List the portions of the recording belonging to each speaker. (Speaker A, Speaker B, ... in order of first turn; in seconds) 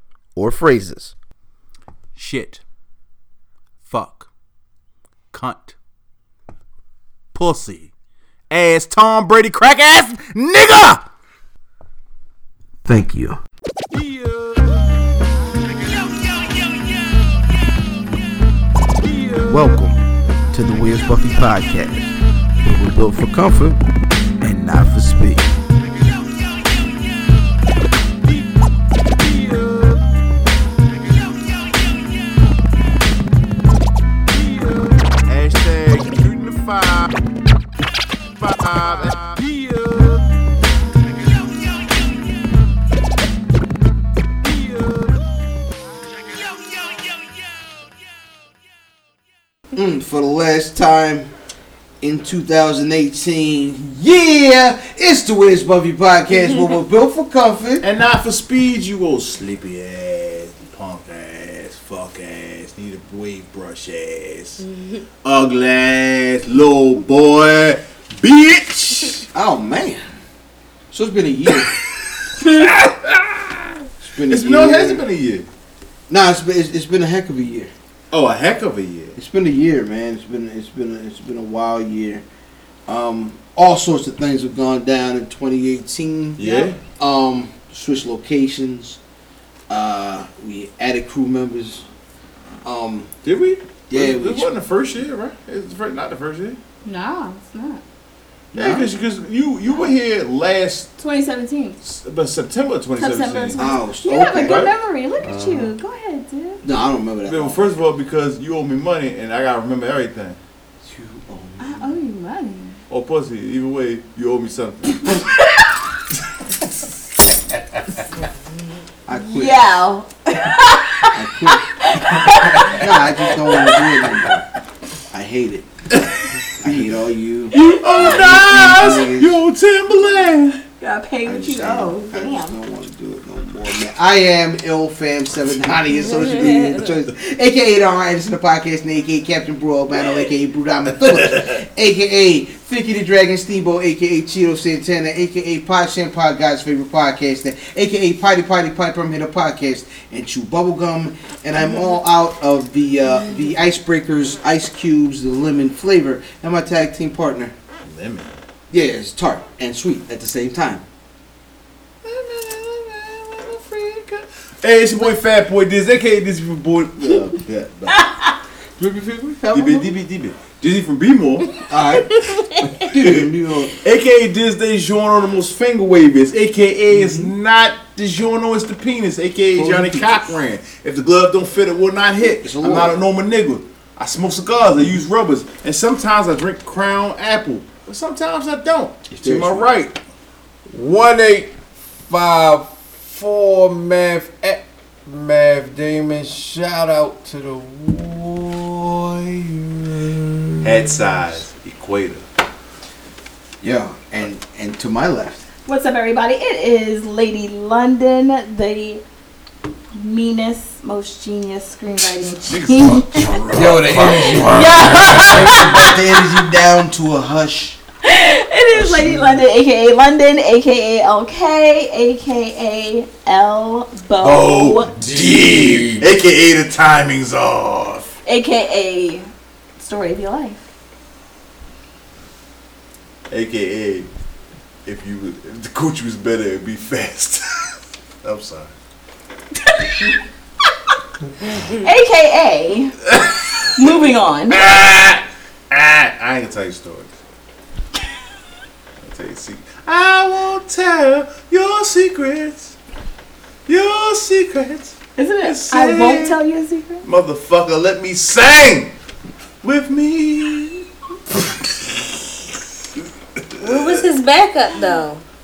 Speaker A: 0.3-1.1, 12.9-13.4, 19.4-23.8, 24.4-25.5, 49.7-51.3, 52.0-57.9, 69.3-70.0, 70.9-71.7, 74.0-75.0, 76.1-77.7, 79.2-82.2, 82.9-89.0, 89.7-91.8, 92.6-93.1, 93.9-94.5, 98.5-98.9, 103.6-104.7, 106.6-107.7, 110.8-112.0, 119.1-119.7, 121.1-121.7, 122.7-124.4, 125.1-125.7, 126.6-129.4, 131.3-157.5, 158.7-160.8, 168.8-169.9, 171.7-173.8, 176.9-177.3, 179.5-180.1, 182.2-183.0, 189.1-189.7, 203.6-205.4, 213.5-217.8, 218.7-219.4
Speaker B: 2.2-2.6, 3.9-4.3, 5.3-5.8, 7.3-7.9, 8.5-11.0, 35.3-37.1, 38.4-39.4, 57.8-64.6, 65.2-69.2, 72.4-73.5, 74.3-75.5, 78.1-79.2, 86.4-86.8, 93.2-96.6, 98.5-100.9, 101.8-103.6, 104.4-104.7, 107.2-110.4, 112.9-115.1, 127.5-130.6, 157.8-158.3, 162.0-168.1, 169.5-171.5, 172.9-173.3, 173.8-190.0, 200.6-202.2, 212.3-214.3, 224.2-228.1, 233.3-234.1, 234.8-237.7, 238.2-238.7, 243.1-244.0, 244.5-247.1, 249.0-252.7, 253.7-256.4, 257.1-258.9, 259.6-260.8, 263.4-264.1
Speaker C: 64.6-65.0, 135.9-136.9, 241.6-241.8, 263.6-265.2
Speaker D: 96.8-97.8, 101.0-101.8, 103.0-106.6, 111.6-112.7, 119.3-124.0, 130.8-132.6, 167.9-168.3, 205.7-209.0, 209.9-213.4, 214.4-216.0, 218.0-224.9, 228.3-229.3, 229.8-230.6, 239.6-240.0, 241.8-242.9, 243.8-244.7, 255.2-257.1
Speaker E: 105.2-105.7, 190.7-191.5, 192.1-200.9, 213.6-215.3, 224.9-226.1